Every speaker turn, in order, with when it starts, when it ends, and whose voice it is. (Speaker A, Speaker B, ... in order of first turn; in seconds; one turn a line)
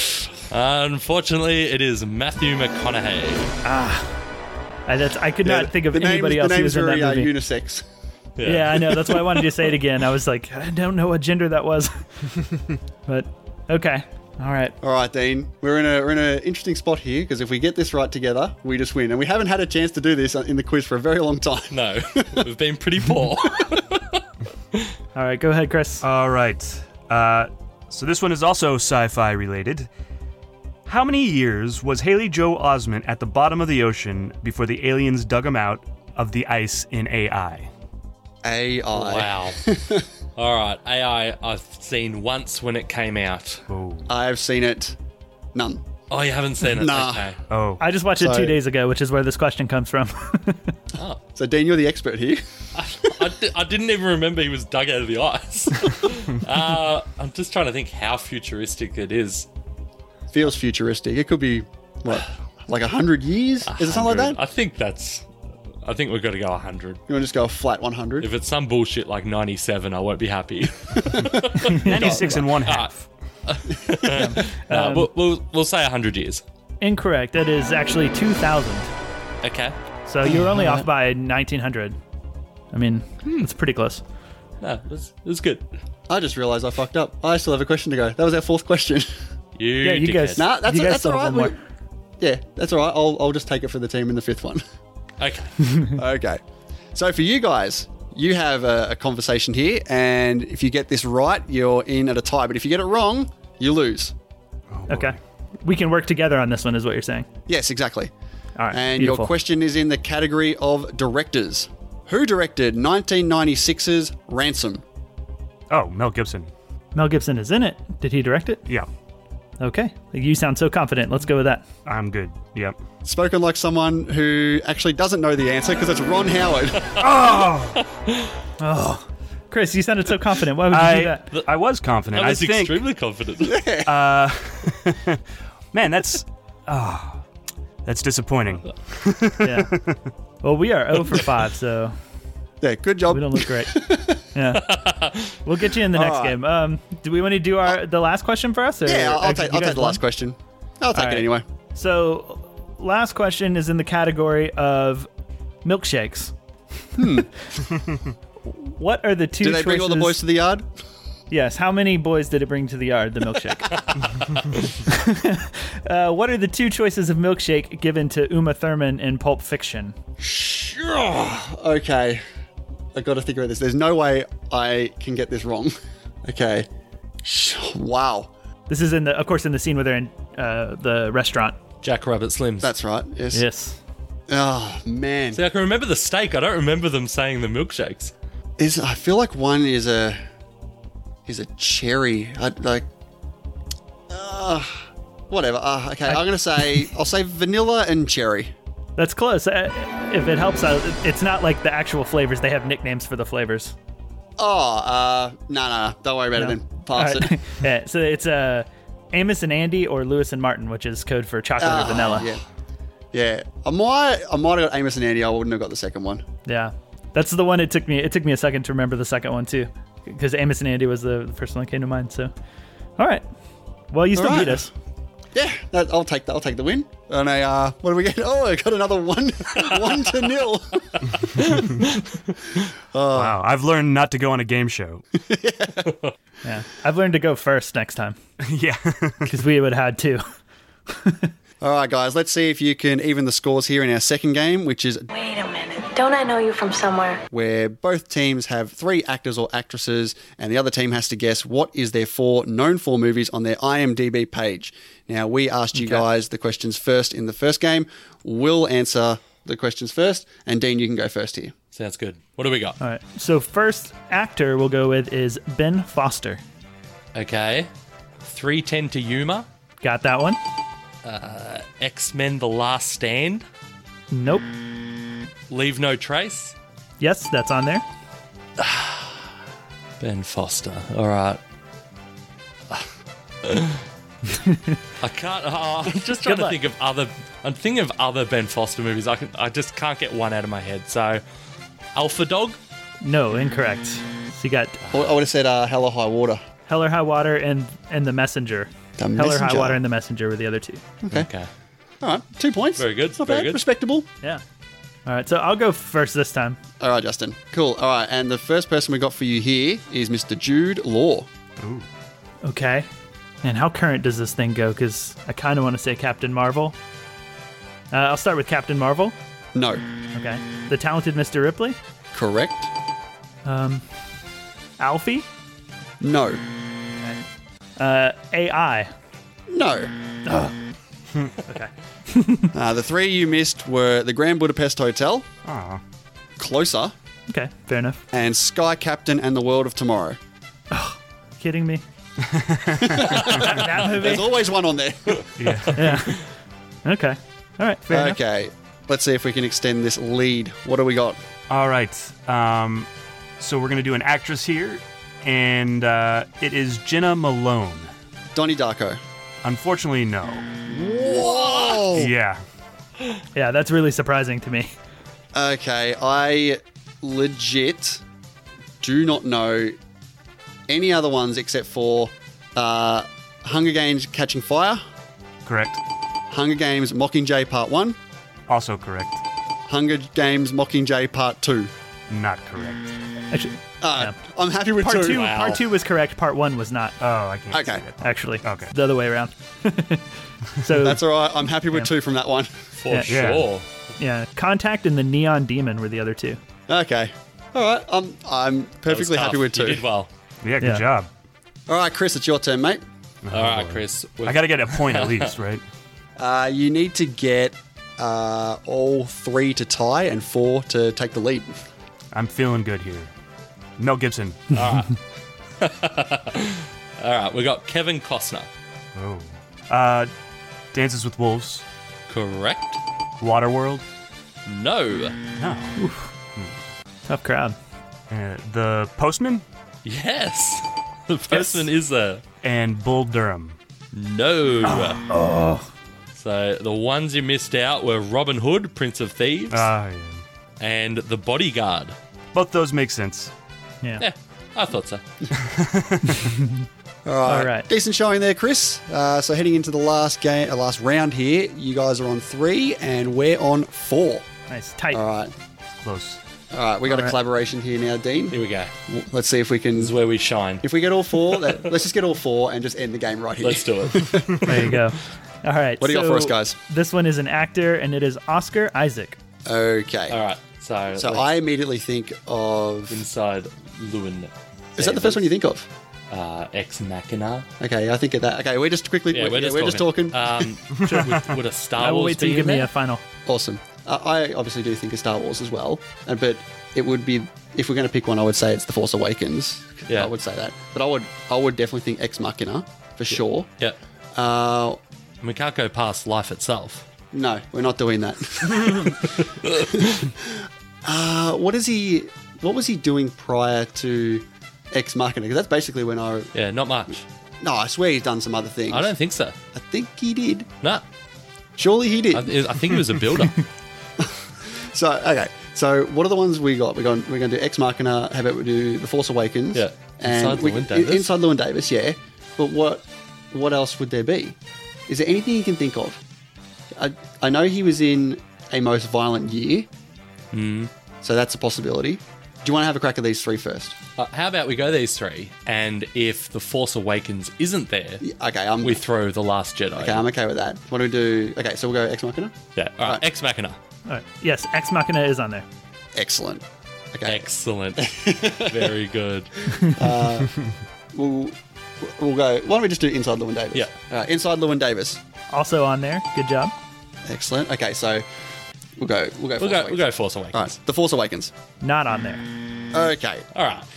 Speaker A: 0.5-3.5
Speaker B: 3.6-4.1
Speaker B: 4.9-7.3
Speaker C: 5.4-7.8
Speaker A: 8.4-9.4
Speaker B: 8.4-12.0
Speaker B: 13.1-14.8
Speaker C: 14.8-22.4
Speaker A: 21.7-24.2
Speaker C: 23.5-23.8
Speaker B: 25.1-26.0
Speaker D: 26.0-29.9
Speaker D: 30.9-37.7
Speaker C: 38.4-40.0
Speaker A: 38.9-39.6
Speaker A: 40.4-43.6
Speaker D: 43.7-44.1
Speaker C: 44.1-45.0
Speaker C: 45.5-45.8
Speaker A: 46.1-47.4
Speaker C: 46.6-47.3
Speaker D: 47.5-47.8
Speaker B: 47.8-50.7
Speaker C: 48.2-48.5
Speaker C: 51.3-52.4
Speaker A: 52.8-59.5
Speaker C: 60.3-64.4
Speaker A: 63.7-65.3
Speaker A: 65.8-67.0
Speaker C: 67.1-68.3
Speaker A: 68.2-72.9
Speaker C: 70.9-71.4
Speaker B: 71.6-72.4
Speaker D: 71.8-73.1
Speaker A: 73.5-76.4
Speaker B: 74.0-75.1
Speaker B: 76.8-78.9
Speaker A: 79.4-79.8
Speaker B: 80.1-82.0
Speaker C: 80.3-80.8
Speaker B: 82.7-84.0
Speaker A: 84.6-85.7
Speaker C: 86.1-89.1
Speaker A: 89.5-90.5
Speaker B: 89.8-91.5
Speaker C: 90.4-91.6
Speaker C: 92.2-94.6
Speaker A: 95.2-95.5
Speaker C: 95.9-96.4
Speaker C: 96.9-104.1
Speaker D: 104.7-105.2
Speaker B: 104.9-107.2
Speaker C: 107.5-108.1
Speaker B: 108.6-109.3
Speaker C: 108.7-114.8
Speaker D: 115.7-116.5
Speaker B: 117.0-118.6
Speaker B: 119.6-121.7
Speaker D: 121.9-122.8
Speaker C: 123.0-127.0
Speaker D: 127.0-127.8
Speaker B: 128.6-131.2
Speaker D: 130.7-132.8
Speaker A: 132.1-133.6
Speaker C: 133.4-134.0
Speaker D: 133.9-135.2
Speaker D: 135.7-137.2
Speaker D: 137.8-140.0
Speaker B: 139.4-139.7
Speaker B: 140.4-141.9
Speaker C: 142.6-144.2
Speaker B: 143.1-143.8
Speaker B: 144.3-144.8
Speaker A: 144.6-145.3
Speaker B: 145.4-150.0
Speaker C: 145.9-146.4
Speaker C: 148.8-151.4
Speaker B: 150.9-155.1
Speaker B: 155.6-156.3
Speaker C: 157.0-157.3
Speaker B: 158.5-160.2
Speaker C: 159.4-160.7
Speaker B: 161.3-163.7
Speaker A: 163.7-164.7
Speaker B: 164.9-169.9
Speaker C: 170.2-172.2
Speaker C: 172.9-176.7
Speaker C: 177.2-178.3
Speaker B: 178.7-181.6
Speaker A: 181.8-182.7
Speaker C: 182.6-183.4
Speaker B: 183.3-183.8
Speaker C: 184.3-185.4
Speaker A: 185.3-188.1
Speaker C: 188.6-190.2
Speaker C: 191.2-192.9
Speaker C: 194.1-198.5
Speaker B: 196.1-196.9
Speaker B: 199.0-203.8
Speaker C: 204.4-207.3
Speaker B: 206.3-212.3
Speaker C: 211.6-212.4
Speaker C: 213.1-216.2
Speaker B: 216.5-222.3
Speaker B: 223.0-223.2
Speaker B: 223.9-224.7
Speaker C: 224.1-224.7
Speaker C: 225.3-231.0
Speaker C: 232.9-233.4
Speaker D: 233.1-235.0
Speaker C: 235.2-235.9
Speaker B: 236.4-238.2
Speaker D: 238.4-239.3
Speaker B: 239.3-240.2
Speaker B: 240.9-241.3
Speaker C: 241.6-245.1
Speaker E: 245.1-247.2
Speaker C: 247.3-261.5
Speaker B: 255.7-256.1
Speaker A: 261.7-262.8
Speaker B: 262.8-266.4
Speaker A: 267.1-267.7
Speaker A: 268.2-269.5
Speaker B: 269.8-270.4
Speaker A: 271.0-273.4
Speaker B: 274.1-274.5
Speaker A: 275.5-276.5
Speaker B: 277.0-277.8
Speaker A: 278.6-279.3
Speaker A: 280.0-281.4
Speaker A: 283.4-283.8
Speaker B: 284.3-284.8
Speaker A: 285.0-291.2
Speaker B: 286.2-286.6
Speaker A: 291.9-292.6
Speaker B: 293.0-294.8
Speaker A: 294.8-295.2
Speaker C: 294.9-296.4
Speaker B: 296.7-300.8
Speaker C: 299.0-299.8
Speaker C: 301.0-301.3
Speaker A: 301.1-301.5
Speaker C: 302.0-304.1
Speaker A: 302.8-303.6
Speaker B: 305.1-306.6
Speaker C: 306.8-311.3
Speaker D: 311.6-311.9
Speaker B: 312.4-312.9
Speaker B: 313.4-316.8
Speaker B: 317.9-319.1
Speaker C: 319.5-319.8
Speaker B: 320.1-321.8
Speaker C: 322.1-322.7
Speaker B: 323.4-323.8
Speaker B: 324.8-325.3
Speaker C: 326.0-326.4
Speaker B: 327.8-328.9
Speaker C: 329.5-329.9
Speaker B: 330.2-330.6
Speaker B: 331.5-332.5
Speaker C: 332.5-335.3
Speaker D: 335.4-335.8
Speaker C: 336.4-336.9
Speaker B: 337.3-338.0
Speaker C: 338.1-340.2
Speaker B: 340.7-341.8
Speaker D: 342.2-343.6
Speaker C: 342.8-345.3
Speaker B: 343.2-344.3
Speaker D: 345.4-345.8
Speaker B: 345.7-346.2
Speaker B: 346.8-348.2
Speaker C: 347.9-351.2
Speaker D: 351.5-352.9
Speaker D: 353.4-357.9
Speaker C: 358.3-359.0
Speaker D: 359.4-360.5
Speaker C: 360.7-362.1
Speaker A: 361.0-361.9
Speaker D: 361.9-362.4
Speaker B: 363.3-364.7
Speaker C: 365.3-368.0
Speaker C: 368.8-369.8
Speaker C: 370.7-374.8
Speaker D: 375.4-375.8
Speaker C: 376.3-378.0
Speaker D: 378.5-379.2
Speaker C: 379.7-381.7
Speaker D: 382.1-382.9
Speaker B: 383.3-384.1
Speaker C: 383.8-385.3
Speaker B: 384.8-387.0
Speaker A: 385.0-385.6
Speaker D: 387.0-388.7
Speaker C: 387.5-387.8
Speaker B: 388.0-391.0
Speaker C: 390.8-392.5
Speaker A: 392.8-393.6
Speaker D: 393.1-393.5
Speaker B: 394.0-396.4
Speaker C: 396.7-399.8
Speaker A: 398.9-400.1
Speaker D: 400.4-401.1
Speaker B: 400.6-400.9
Speaker C: 401.7-402.8
Speaker D: 403.2-405.6
Speaker A: 403.3-405.3
Speaker C: 406.2-411.6
Speaker D: 412.1-413.1
Speaker D: 413.8-414.6
Speaker A: 414.5-415.0
Speaker A: 415.6-418.5
Speaker D: 418.9-420.1
Speaker D: 420.7-421.6
Speaker A: 422.1-422.8
Speaker D: 423.2-423.8
Speaker A: 424.5-425.2
Speaker D: 425.4-425.8
Speaker B: 425.8-426.1
Speaker B: 427.1-427.6
Speaker D: 428.1-429.4
Speaker A: 429.8-432.2
Speaker B: 431.3-431.6
Speaker D: 432.4-433.6
Speaker A: 433.9-435.0
Speaker B: 434.7-435.7
Speaker A: 436.1-439.7
Speaker D: 439.5-440.2
Speaker A: 440.6-442.0
Speaker D: 442.3-443.3
Speaker A: 444.0-445.0
Speaker D: 445.3-446.3
Speaker B: 446.1-446.6
Speaker C: 447.0-454.3
Speaker B: 447.3-447.6
Speaker B: 454.5-455.0
Speaker C: 454.9-455.3
Speaker D: 455.7-456.2
Speaker C: 456.5-459.9
Speaker B: 456.9-457.1
Speaker A: 458.3-458.7
Speaker A: 459.8-460.6
Speaker C: 460.6-464.6
Speaker A: 461.2-461.6
Speaker A: 463.4-464.3
Speaker B: 464.4-469.2
Speaker C: 465.8-466.6
Speaker C: 469.4-470.2
Speaker A: 470.1-471.2
Speaker C: 470.9-473.0
Speaker A: 472.9-475.3
Speaker C: 474.8-475.7
Speaker A: 476.1-477.5
Speaker C: 477.6-480.5
Speaker A: 479.1-482.7
Speaker D: 480.8-481.2
Speaker B: 481.8-483.0
Speaker C: 483.2-493.5
Speaker C: 494.1-494.8
Speaker A: 495.2-496.9
Speaker C: 497.1-499.1
Speaker C: 499.7-506.3
Speaker A: 506.3-507.0
Speaker C: 507.4-508.9
Speaker A: 508.7-509.3
Speaker C: 509.5-510.5
Speaker C: 511.6-512.4
Speaker A: 512.1-513.5
Speaker C: 514.0-526.0
Speaker A: 519.5-521.1
Speaker C: 526.7-529.7
Speaker A: 530.3-530.7
Speaker C: 531.0-533.8
Speaker A: 534.0-538.0
Speaker C: 538.0-538.8
Speaker A: 538.6-540.0
Speaker C: 539.8-543.0
Speaker A: 542.5-543.6
Speaker B: 543.9-545.5
Speaker C: 545.9-548.7
Speaker A: 547.0-549.3
Speaker C: 549.8-550.3
Speaker C: 550.9-555.0
Speaker B: 555.3-556.5
Speaker C: 557.0-558.0
Speaker C: 558.8-561.3
Speaker A: 559.4-560.5
Speaker B: 561.6-562.2
Speaker C: 562.7-563.2
Speaker A: 563.3-563.7